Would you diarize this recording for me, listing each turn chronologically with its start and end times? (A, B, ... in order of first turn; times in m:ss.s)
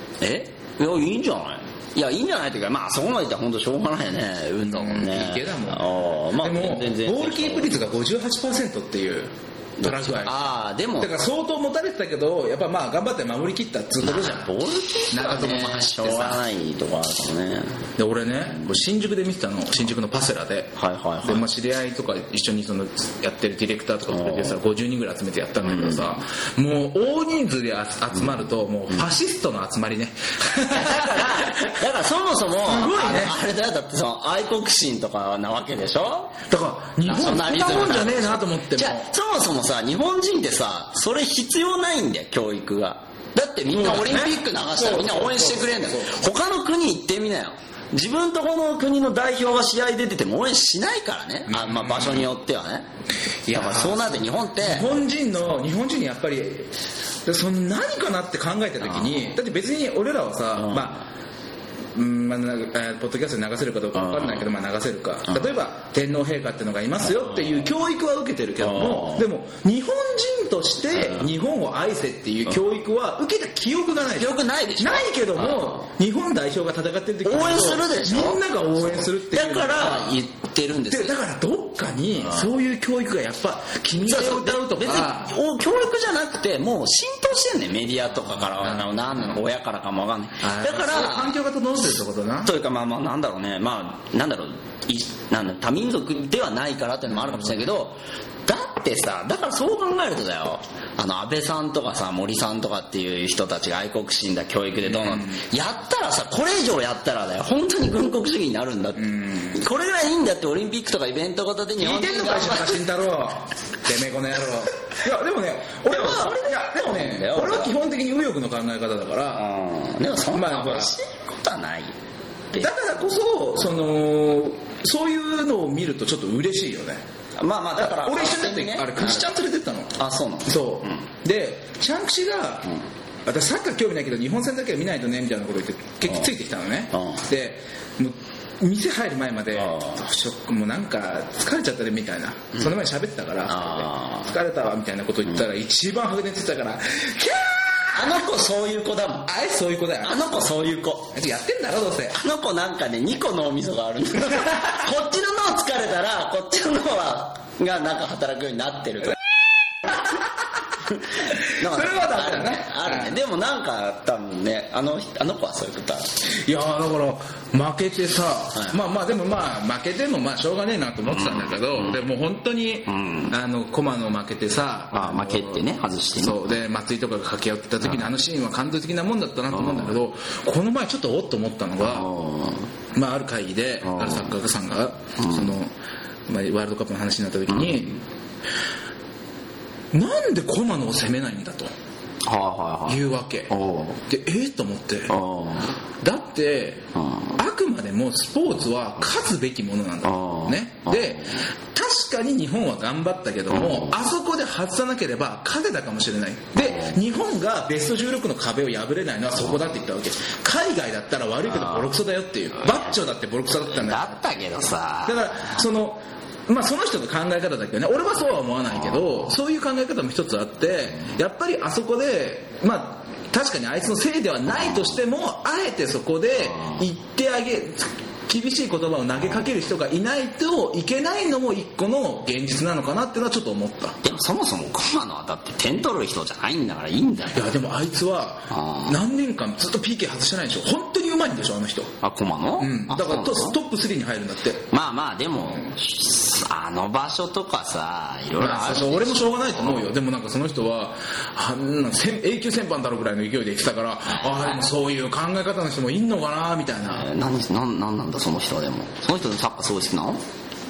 0:00.2-0:07.8 A
0:04.6-0:10.5 B
0:09.8-0:11.1 A
0:11.0-0:14.5 B
0:14.0-0:17.9 A
0:15.1-0:16.4 B
0:18.0-0:31.7 B
0:20.8-0:21.4 A
0:24.1-0:24.6 A
0:25.6-0:26.2 A
0:30.6-0:36.4 A
0:32.6-0:33.4 B
0:36.5-0:39.1 B
0:37.0-0:52.9 A
0:43.7-0:46.2 B
0:51.5-0:52.3 B
0:53.4-0:56.7 B
0:53.5-0:54.9 A
0:57.2-1:01.0 B
1:00.6-1:01.0 A
1:01.9-1:20.2 B
1:04.1-1:04.4 A
1:08.6-1:09.2 A
1:14.1-1:15.8 A
1:17.2-1:21.1 A
1:20.9-1:25.4 B
1:24.0-1:31.4 A
1:28.5-1:29.4 B
1:30.4-1:32.5 B
1:32.4-1:52.8 A
1:44.8-1:45.4 B
1:49.0-1:49.6 B
1:51.8-1:59.4 B
1:55.9-1:57.8 A
1:59.3-2:01.9 A
2:00.3-2:01.0 B
2:02.6-2:07.0 B
2:07.4-2:09.3 A
2:07.8-2:12.7 B
2:09.9-2:11.0 A
2:13.2-2:28.2 B
2:16.9-2:17.2 A
2:19.6-2:20.0 A
2:23.5-2:24.3 A
2:27.9-2:29.3 A
2:29.2-2:30.4 B
2:30.0-2:31.1 A
2:31.1-2:32.2 B
2:32.1-2:39.2 A
2:39.8-2:40.2 B
2:40.8-2:46.1 A
2:41.3-2:43.2 B
2:46.3-3:02.1 B
2:51.1-2:52.0 A
2:52.9-2:53.3 A
2:54.9-2:56.5 A
2:59.5-3:00.0 A
3:01.8-3:02.7 A
3:02.9-3:05.7 B
3:03.8-3:04.3 A
3:05.2-3:05.5 A
3:06.3-3:08.0 B
3:07.6-3:07.9 A
3:09.9-3:11.7 B
3:12.2-3:14.0 A
3:12.9-3:13.5 B
3:14.0-3:15.1 B
3:15.1-3:15.8 A
3:16.0-3:34.2 B
3:16.9-3:17.4 A
3:20.0-3:21.4 A
3:23.5-3:23.9 A
3:26.6-3:27.0 A
3:31.5-3:31.9 A
3:33.7-3:35.5 A
3:35.0-3:54.0 B
3:54.0-3:57.5 A
3:57.3-4:01.9 B
3:58.5-3:59.0 A
4:02.0-4:03.6 A
4:02.6-4:04.7 B
4:04.7-4:09.8 A
4:08.4-4:17.1 B
4:16.8-4:20.2 A